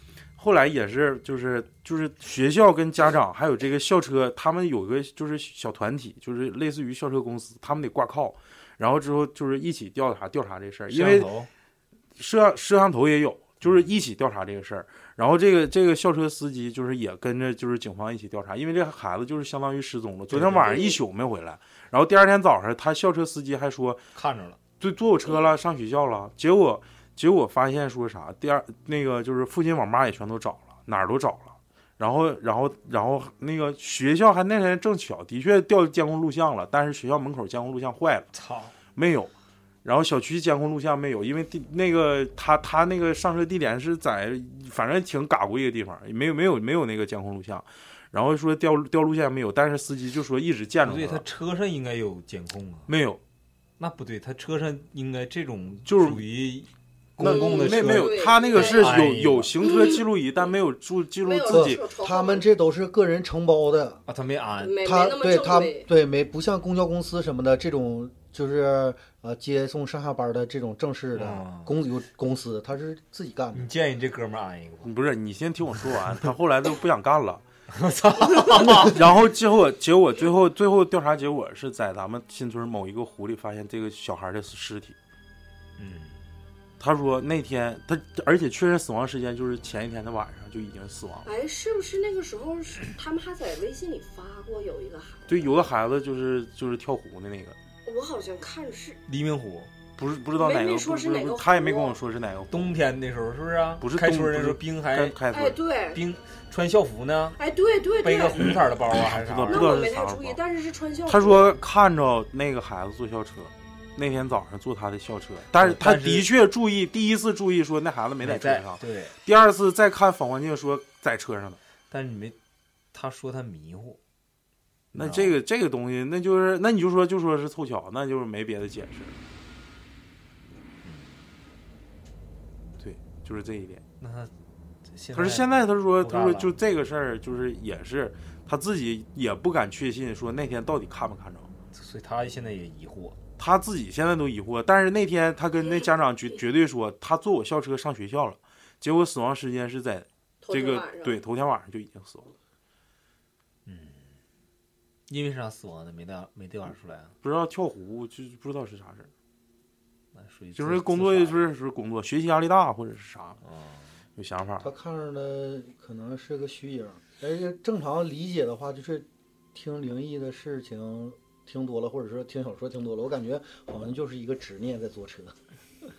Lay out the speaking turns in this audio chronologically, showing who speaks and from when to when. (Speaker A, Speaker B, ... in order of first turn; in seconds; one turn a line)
Speaker A: 0.4-11.3
Speaker B: 10.9-11.5
Speaker A: 12.2-24.0
Speaker B: 20.3-20.8
Speaker C: 20.6-21.0
Speaker B: 24.1-24.6
Speaker A: 24.8-38.3
Speaker B: 38.3-38.8
Speaker A: 38.9-39.3
Speaker A: 39.8-51.2
Speaker B: 50.8-52.9
Speaker A: 52.9-53.2
Speaker B: 53.8-59.5
Speaker A: 55.9-56.2
Speaker A: 57.2-61.8
Speaker C: 57.2-59.0
Speaker C: 59.6-60.0
Speaker C: 61.2-62.5
Speaker D: 61.5-64.0
Speaker B: 64.1-64.8
Speaker C: 64.6-65.9
Speaker D: 64.8-73.7
Speaker B: 71.1-71.7
Speaker B: 73.5-74.9
Speaker A: 74.8-77.4
Speaker B: 77.8-79.0
Speaker A: 78.5-85.0
Speaker B: 85.8-86.2
Speaker A: 86.8-91.2
Speaker C: 91.2-95.5
Speaker A: 95.3-97.6
Speaker C: 97.8-99.0
Speaker B: 99.1-99.7
Speaker A: 100.0-102.7
Speaker C: 100.3-102.0
Speaker B: 102.5-105.2
Speaker A: 103.8-105.6
Speaker C: 105.3-106.0
Speaker B: 105.9-107.4
Speaker C: 107.4-108.6
Speaker B: 108.0-109.8
Speaker A: 109.0-110.4
Speaker C: 109.5-111.5
Speaker A: 111.1-121.6
Speaker B: 115.5-116.3
Speaker B: 118.2-119.2
Speaker B: 121.9-122.3
Speaker B: 122.9-124.0
Speaker A: 124.9-129.2
Speaker B: 124.9-125.3
Speaker B: 130.8-131.2
Speaker A: 132.8-133.8
Speaker B: 134.0-134.3
Speaker B: 134.9-135.5
Speaker A: 135.1-141.5
Speaker B: 136.0-136.5
Speaker B: 141.7-143.2
Speaker A: 143.4-152.3
Speaker C: 150.4-151.2
Speaker B: 153.7-154.1
Speaker B: 155.1-157.1
Speaker A: 157.2-159.1
Speaker B: 160.1-161.5
Speaker A: 160.5-163.4
Speaker B: 163.4-163.9
Speaker A: 164.2-164.7
Speaker D: 164.6-175.3